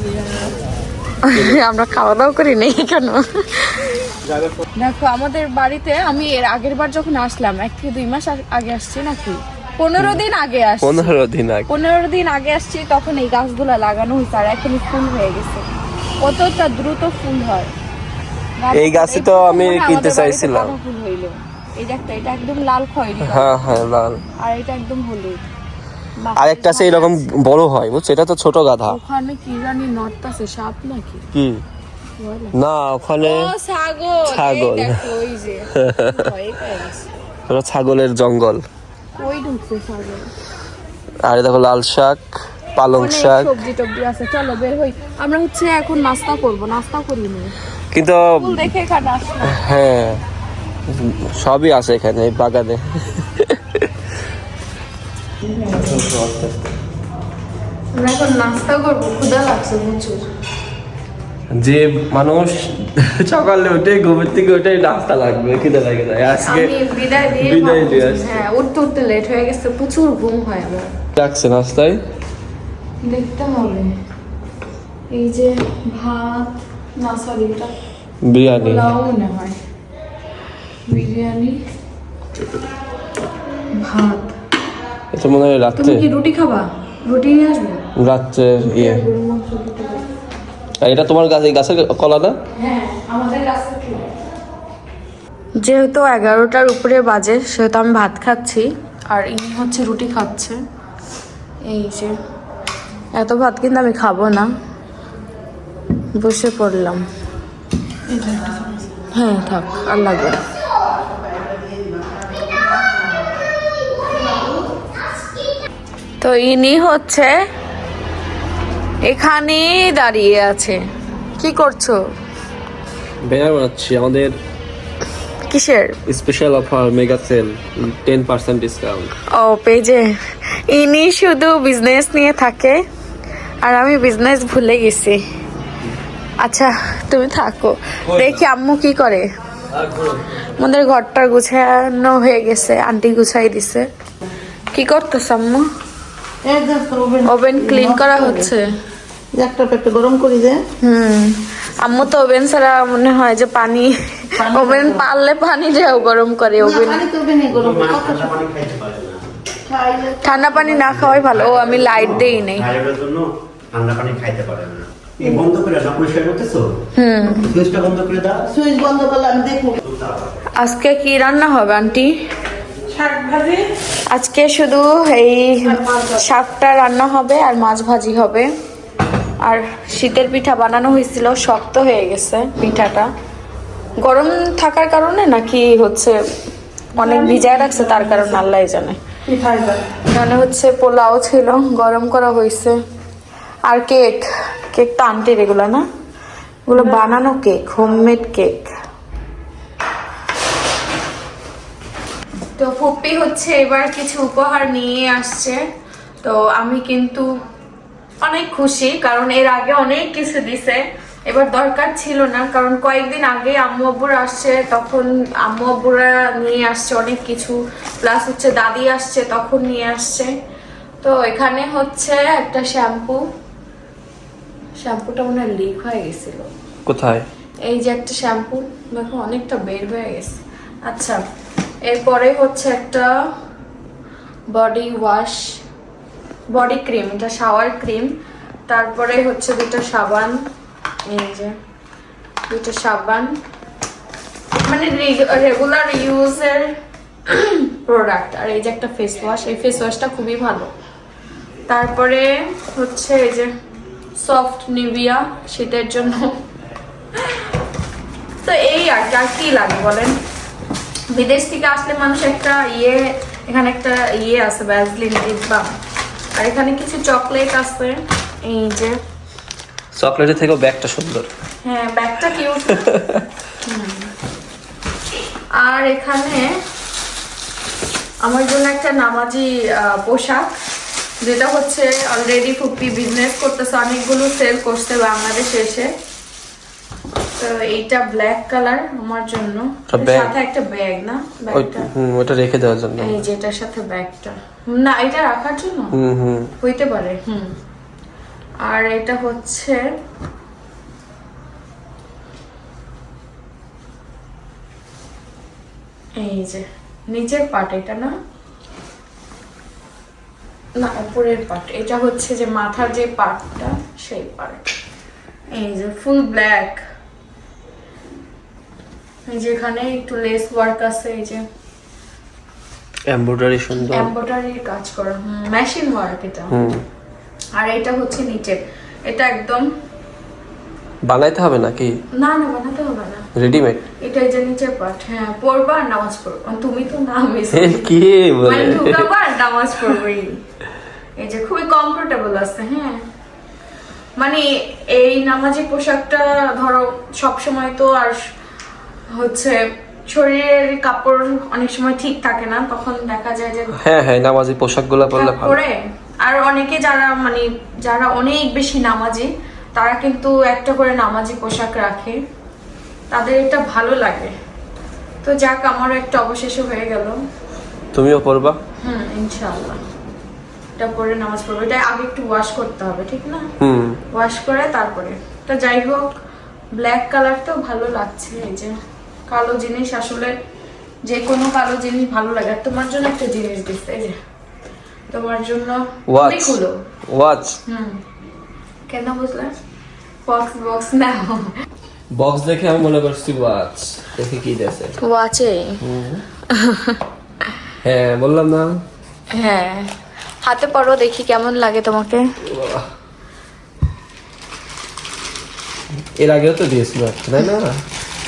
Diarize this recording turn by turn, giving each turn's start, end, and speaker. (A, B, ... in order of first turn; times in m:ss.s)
0:01.2-0:03.9 A
0:04.8-0:11.1 A
0:10.8-0:11.7 B
0:11.7-0:15.7 A
0:16.2-0:17.7 A
0:18.6-0:23.6 A
0:18.7-0:20.7 B
0:23.2-0:24.2 B
0:24.4-0:25.4 A
0:26.2-0:27.2 A
0:26.4-0:29.0 B
0:28.8-0:31.2 A
0:31.3-0:31.6 B
0:32.2-0:32.5 A
0:32.5-0:33.4 B
0:33.2-0:37.1 A
0:34.3-0:35.0 B
0:37.5-0:38.6 B
0:39.2-0:40.3 A
0:41.2-0:42.2 B
0:42.8-0:43.5 B
0:42.9-0:47.5 A
0:47.9-0:48.6 B
0:48.4-0:49.6 A
0:49.5-0:50.2 B
0:50.9-0:53.9 B
0:55.4-0:56.0 A
0:55.7-0:56.7 B
0:57.9-1:00.2 A
1:01.5-1:08.4 B
1:06.3-1:10.9 A
1:11.2-1:12.0 B
1:13.0-1:13.9 A
1:15.1-1:17.7 A
1:18.2-1:18.9 B
1:18.6-1:19.6 A
1:20.9-1:21.6 A
1:23.7-1:24.3 A
1:25.1-1:26.0 B
1:25.8-1:27.8 A
1:28.0-1:29.0 B
1:28.6-1:30.0 A
1:30.8-1:32.3 B
1:32.6-1:34.1 A
1:35.6-1:40.6 A
1:41.6-1:42.1 A
1:43.2-1:44.5 A
1:46.1-1:47.0 A
1:48.1-1:48.7 C
1:49.1-1:50.4 A
1:51.4-1:52.9 C
1:56.2-1:57.3 A
1:59.0-2:00.8 A
2:01.4-2:02.0 A
2:03.2-2:04.3 B
2:05.5-2:06.0 A
2:06.1-2:09.1 B
2:09.3-2:10.0 A
2:10.7-2:12.8 A
2:13.6-2:15.2 A
2:16.4-2:19.3 A
2:18.1-2:18.4 B
2:19.7-2:20.2 B
2:20.6-2:23.8 A
2:24.7-2:25.6 A
2:26.4-2:28.5 C
2:27.2-2:28.6 A
2:29.3-2:30.6 C
2:30.8-2:37.0 A
2:34.4-2:35.0 C
2:36.6-2:38.4 C
2:37.5-2:39.2 D
2:39.7-2:41.0 C
2:40.2-2:42.8 A
2:41.1-2:46.7 D
2:46.9-2:47.6 A
2:47.4-2:48.4 D
2:48.5-2:49.8 C
2:50.6-2:52.1 A
2:52.9-2:53.6 C
2:54.1-2:58.5 A
2:55.8-2:56.2 C
2:59.4-3:03.1 A
3:04.0-3:06.2 A
3:07.0-3:08.4 C
3:07.0-3:09.0 A
3:09.2-3:09.8 C
3:10.1-3:12.8 A
3:13.7-3:15.8 A
3:16.7-3:18.7 A
3:16.8-3:17.2 C
3:22.6-3:25.6 A
3:26.2-3:27.3 A
3:28.2-3:40.3 A
3:41.0-3:43.2 A
3:44.8-3:46.5 A
3:46.8-3:47.2 B
3:47.7-3:51.2 A
3:51.9-3:53.1 A
3:54.5-3:55.4 A
3:56.5-3:58.1 A
3:58.7-4:00.4 A
4:01.1-4:01.5 A
4:02.5-4:03.3 A
4:04.6-4:06.7 A
4:07.3-4:10.7 A
4:11.7-4:13.5 A
4:14.2-4:16.4 A
4:18.4-4:20.2 A
4:21.1-4:25.7 A
4:26.4-4:29.0 A
4:29.9-4:31.3 B
4:31.6-4:32.9 A
4:32.8-4:33.2 B
4:33.6-4:34.1 A
4:35.6-4:36.6 A
4:38.2-4:40.5 A
4:41.2-4:45.9 A
4:47.4-4:51.8 A
4:49.9-4:50.3 B
4:51.5-4:53.2 B
4:53.0-4:55.9 A
4:55.9-4:56.5 B
4:56.6-4:57.5 A
4:58.6-4:59.8 A
5:06.2-5:08.1 A
5:10.8-5:14.6 A
5:15.5-5:16.8 A
5:19.3-5:21.4 A
5:23.1-5:24.1 B
5:23.8-5:26.5 A
5:26.5-5:26.8 B
5:27.6-5:29.7 A
5:31.0-5:31.9 B
5:32.1-5:33.3 A
5:33.4-5:33.8 B
5:34.0-5:37.9 A
5:37.5-5:39.1 B
5:38.4-5:40.4 A
5:41.2-5:43.0 A
5:44.2-5:48.2 A
5:49.1-5:53.8 A
5:53.8-5:55.6 B
5:55.1-6:02.2 A
6:03.1-6:04.3 A
6:05.2-6:07.2 A
6:07.9-6:08.6 B
6:08.8-6:09.8 A
6:10.8-6:13.4 A
6:13.6-6:14.0 B
6:14.1-6:16.1 A
6:16.7-6:18.7 A
6:19.3-6:20.3 A
6:21.1-6:24.2 A
6:25.1-6:26.7 A
6:26.1-6:27.6 B
6:27.7-6:28.0 A
6:28.9-6:29.5 A
6:30.2-6:31.5 A
6:32.1-6:34.9 B
6:35.0-6:35.8 A
6:35.8-6:36.2 B
6:36.5-6:37.0 A
6:37.8-6:38.8 B
6:39.3-6:39.9 A
6:40.4-6:42.2 A
6:42.4-6:42.9 B
6:46.2-6:47.8 B